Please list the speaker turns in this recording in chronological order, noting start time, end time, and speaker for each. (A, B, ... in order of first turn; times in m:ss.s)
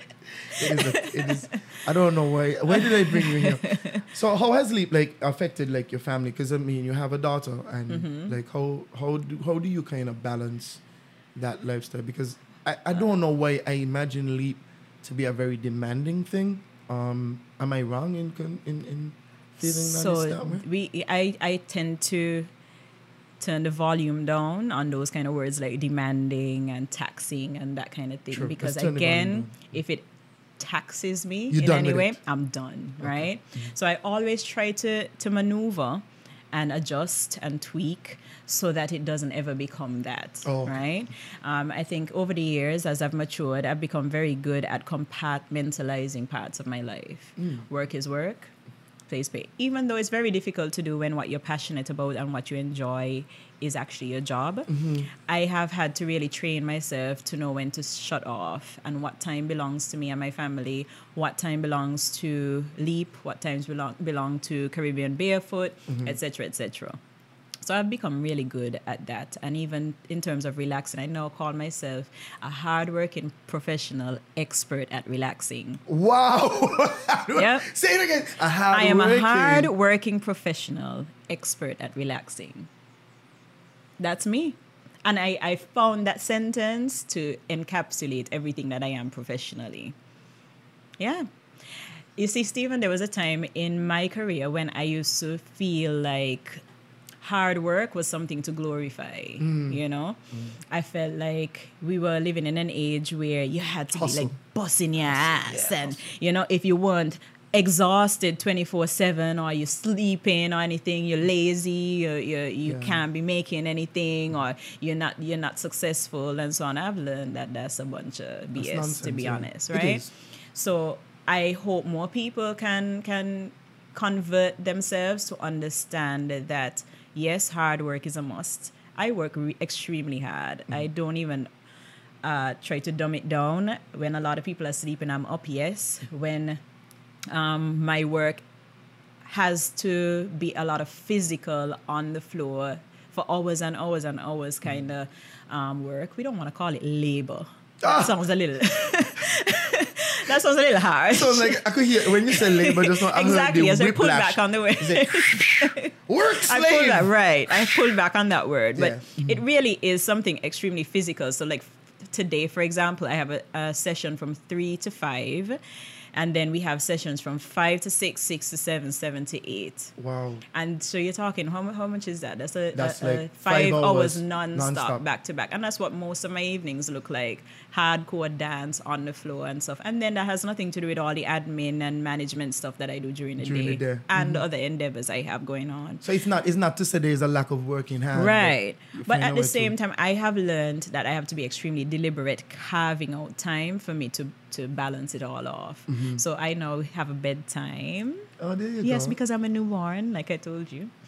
0:00.6-0:01.5 A
0:00.6-0:10.8 B
0:02.7-0:04.0 A
0:07.9-0:08.4 A
0:11.3-0:20.6 B
0:19.6-0:22.5 A
0:23.4-0:30.0 A
0:28.3-0:29.8 B
0:30.6-0:48.5 A
0:31.5-0:32.2 B
0:33.0-0:33.7 B
0:40.4-0:40.8 B
0:47.4-0:47.6 B
0:49.1-1:07.0 A
0:54.7-0:55.1 B
1:05.9-1:06.2 B
1:07.6-1:15.8 A
1:15.9-1:19.7 B
1:17.4-1:17.7 A
1:18.7-1:22.7 A
1:24.0-1:29.9 A
1:31.0-1:31.2 A
1:32.2-1:36.6 A
1:37.2-2:11.5 A
1:39.4-1:39.8 B
1:43.9-1:44.3 B
1:45.0-1:46.0 B
1:52.6-1:53.0 B
1:58.6-2:00.1 B
2:12.2-2:16.6 A
2:17.3-2:18.4 A
2:19.2-2:35.9 A
2:27.8-2:28.1 B
2:31.1-2:37.1 B
2:36.4-2:45.6 A
2:38.8-2:39.4 B
2:46.1-2:49.9 A
2:50.0-2:50.4 B
2:50.5-3:06.0 A
2:52.7-2:55.0 B
3:03.4-3:04.4 B
3:06.0-3:09.7 B
3:08.1-3:18.2 A
3:15.9-3:16.2 B
3:18.4-3:19.2 B
3:18.8-3:20.9 A